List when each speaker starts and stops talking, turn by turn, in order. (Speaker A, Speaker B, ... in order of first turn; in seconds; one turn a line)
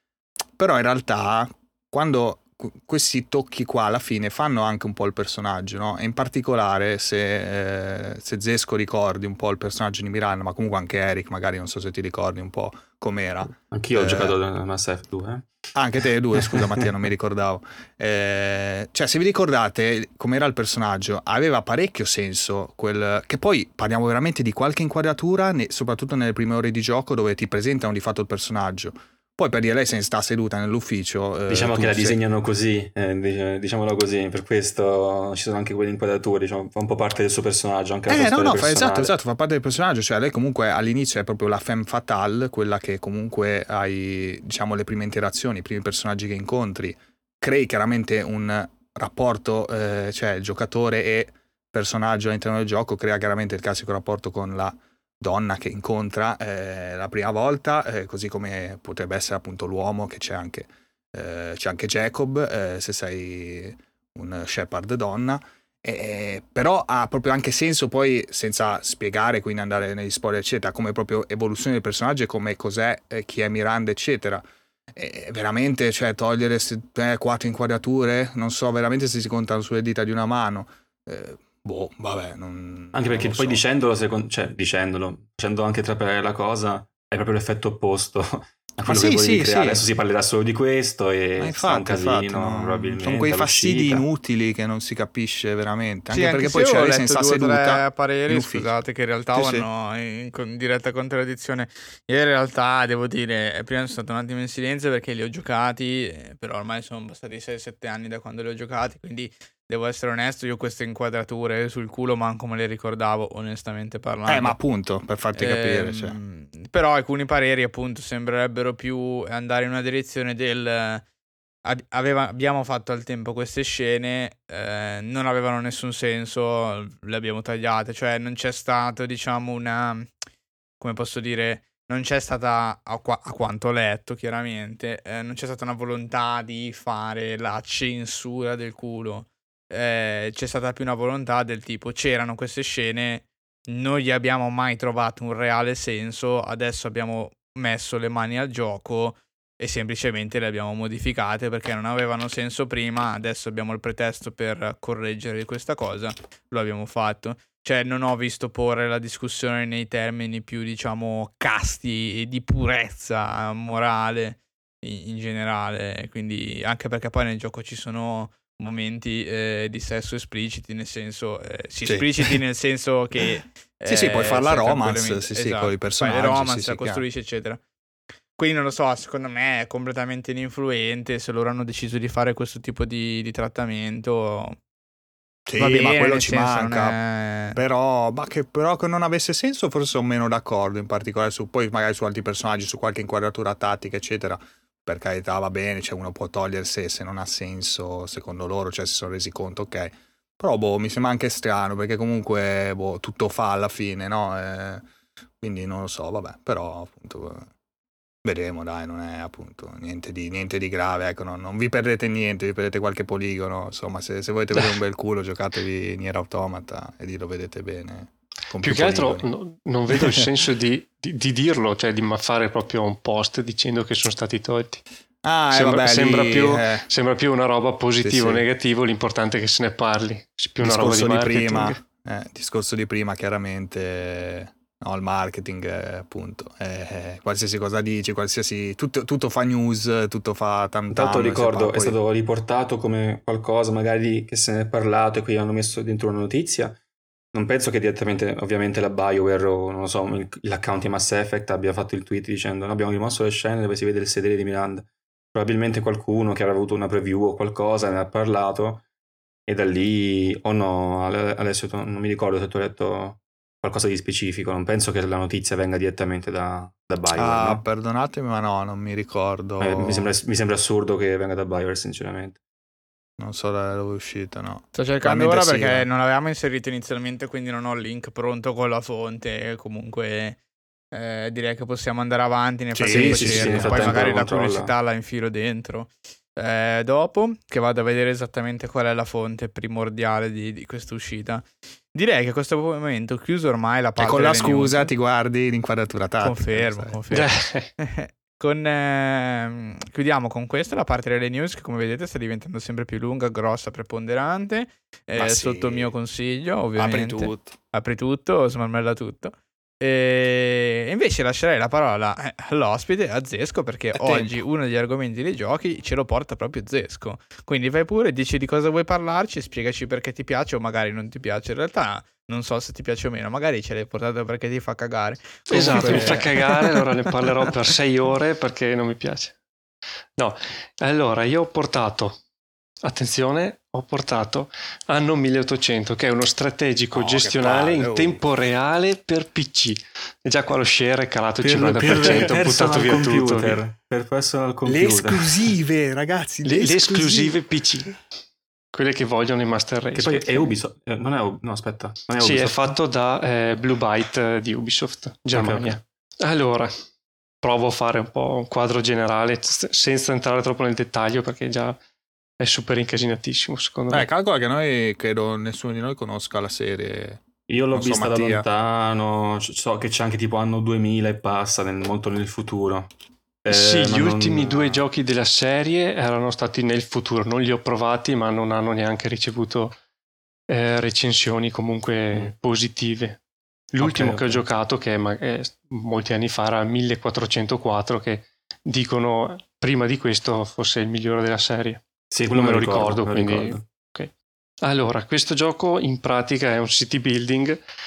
Speaker A: 0.6-14.3
Speaker B: 13.7-15.5
Speaker A: 15.8-32.2
Speaker B: 31.5-39.1
Speaker A: 38.1-83.6
Speaker B: 82.9-94.0
Speaker A: 88.9-89.8
Speaker A: 91.4-98.7
Speaker C: 96.1-114.6
Speaker A: 99.3-99.7
Speaker A: 114.3-116.2
Speaker C: 115.3-121.0
Speaker C: 121.7-130.1
Speaker C: 130.8-177.6
Speaker A: 171.8-172.3
Speaker A: 173.9-177.0
Speaker C: 178.4-184.6
Speaker A: 185.5-187.0
Speaker C: 185.6-187.6
Speaker A: 187.6-204.9
Speaker A: 205.4-207.5
Speaker A: 208.2-219.3
Speaker D: 218.6-224.8
Speaker A: 219.9-220.3
Speaker A: 225.2-226.9
Speaker D: 225.5-231.8
Speaker A: 228.0-228.4
Speaker A: 230.6-241.9
Speaker B: 240.9-246.8
Speaker B: 247.3-258.8
Speaker B: 259.5-267.6
Speaker A: 267.2-270.1
Speaker B: 269.6-272.4
Speaker A: 273.2-275.9
Speaker C: 274.7-280.4
Speaker C: 280.9-294.9
Speaker A: 282.8-284.0
Speaker B: 282.9-284.7
Speaker A: 294.0-297.0
Speaker C: 296.2-326.8
Speaker D: 297.1-297.7
Speaker A: 305.2-305.9
Speaker A: 306.8-307.6
Speaker A: 314.0-314.3
Speaker D: 325.5-329.4
Speaker D: 330.2-332.2
Speaker D: 332.8-343.6
Speaker A: 336.9-338.2
Speaker B: 341.4-345.5
Speaker A: 344.7-347.4
Speaker D: 346.4-348.0
Speaker D: 348.7-350.5
Speaker B: 349.9-352.8
Speaker D: 352.2-356.7
Speaker B: 355.3-355.8
Speaker D: 357.4-361.8
Speaker D: 362.4-364.1
Speaker A: 363.9-367.2
Speaker B: 367.5-372.9
Speaker A: 367.7-368.4
Speaker B: 373.4-374.9
Speaker D: 373.5-379.8
Speaker D: 380.5-383.2
Speaker D: 383.7-397.6
Speaker B: 383.8-384.4
Speaker B: 392.1-393.6